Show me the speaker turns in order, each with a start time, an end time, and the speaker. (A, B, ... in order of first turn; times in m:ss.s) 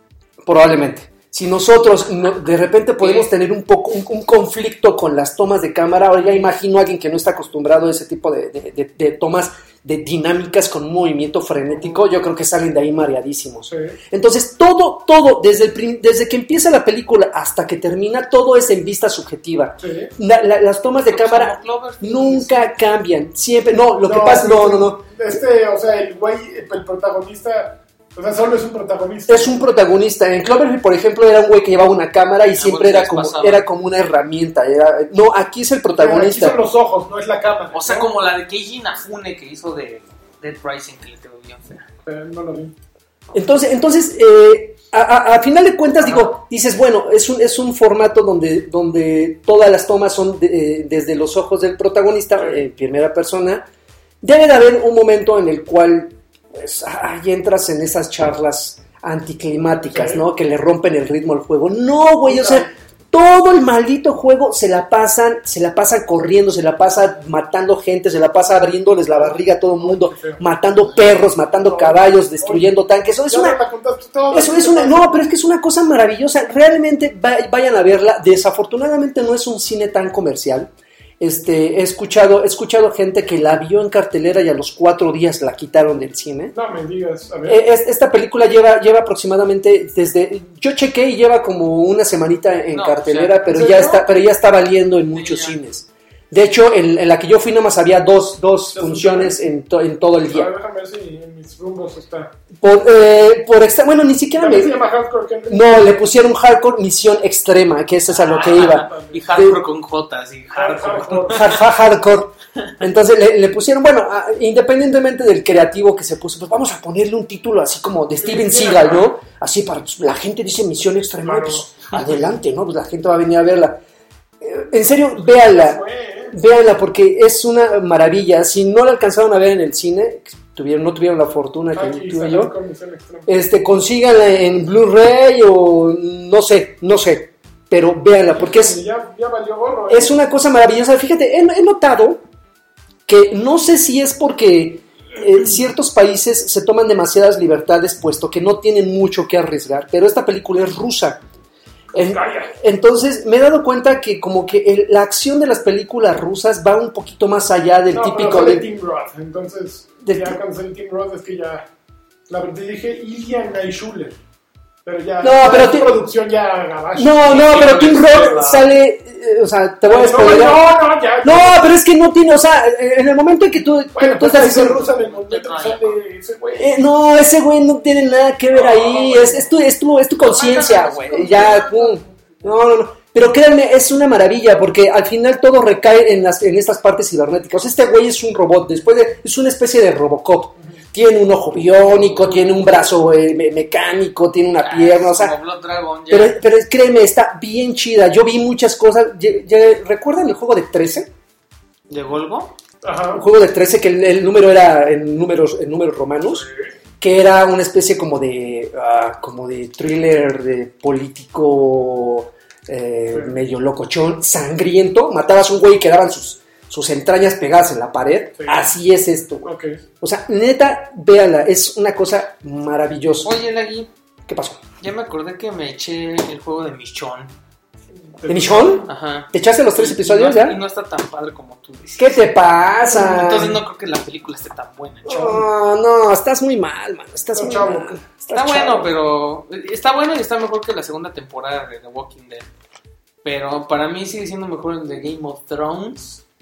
0:00.5-0:25.0 A
0:03.0-0:03.3 B
0:13.7-0:14.0 C
0:19.8-0:20.1 C
0:21.1-0:22.7 B
0:24.0-0:29.7 C
0:29.3-0:36.6 A
0:32.5-0:33.7 B
0:36.0-0:38.1 C
0:37.7-0:41.9 B
0:42.0-0:42.7 C
0:43.3-0:53.7 A
0:46.0-0:46.4 C
0:52.4-0:52.6 C
0:54.2-1:13.6 A
0:59.9-1:00.3 C
1:02.2-1:02.7 C
1:09.1-1:10.4 C
1:11.5-1:15.2 C
1:14.3-1:26.5 A
1:26.5-1:27.6 C
1:27.5-1:40.5 A
1:32.7-1:33.5 B
1:33.5-1:34.1 C
1:35.1-1:35.6 B
1:38.7-1:39.4 C
1:40.3-1:42.4 C
1:42.6-1:44.8 A
1:44.3-1:46.0 C
1:45.5-1:49.6 A
1:48.1-1:51.4 B
1:48.4-1:49.2 C
1:50.6-1:51.6 C
1:51.3-2:03.8 A
1:58.2-1:59.1 C
2:01.2-2:02.1 C
2:04.4-2:05.8 A
2:05.2-2:06.4 C
2:06.3-2:12.5 A
2:11.7-2:13.4 C
2:13.3-2:18.8 A
2:18.3-2:20.2 C
2:19.9-2:22.2 A
2:23.1-2:31.2 A
2:31.9-2:38.7 A
2:32.0-2:32.5 C
2:37.9-2:41.7 C
2:40.0-2:40.4 A
2:42.3-2:44.2 C
2:44.8-2:48.5 C
2:45.2-2:46.0 A
2:47.0-2:54.8 A
2:47.3-2:48.7 B
2:49.9-2:51.7 C
2:54.0-2:56.9 C
2:54.9-2:56.0 B
2:56.6-3:15.3 A
2:58.5-2:59.5 C
3:00.2-3:02.4 B
3:12.0-3:12.5 B
3:14.6-3:16.4 B
3:16.1-3:21.1 A
3:21.9-3:22.6 B
3:22.8-3:23.2 C
3:23.2-3:26.5 A
3:26.3-3:26.7 C
3:27.0-3:39.5 A
3:33.1-3:33.4 C
3:38.4-3:38.7 C
3:39.4-3:39.8 C
3:40.0-3:43.4 A
3:43.2-3:43.9 B
3:44.3-3:44.6 A
3:44.8-3:47.4 B
3:48.2-3:48.9 C
3:48.3-3:50.6 A
3:48.8-3:52.2 B
3:52.0-3:53.6 A
3:52.8-3:55.5 B
3:55.0-3:58.9 A
3:57.3-3:58.0 C
3:58.3-4:02.5 B
4:03.2-4:06.2 B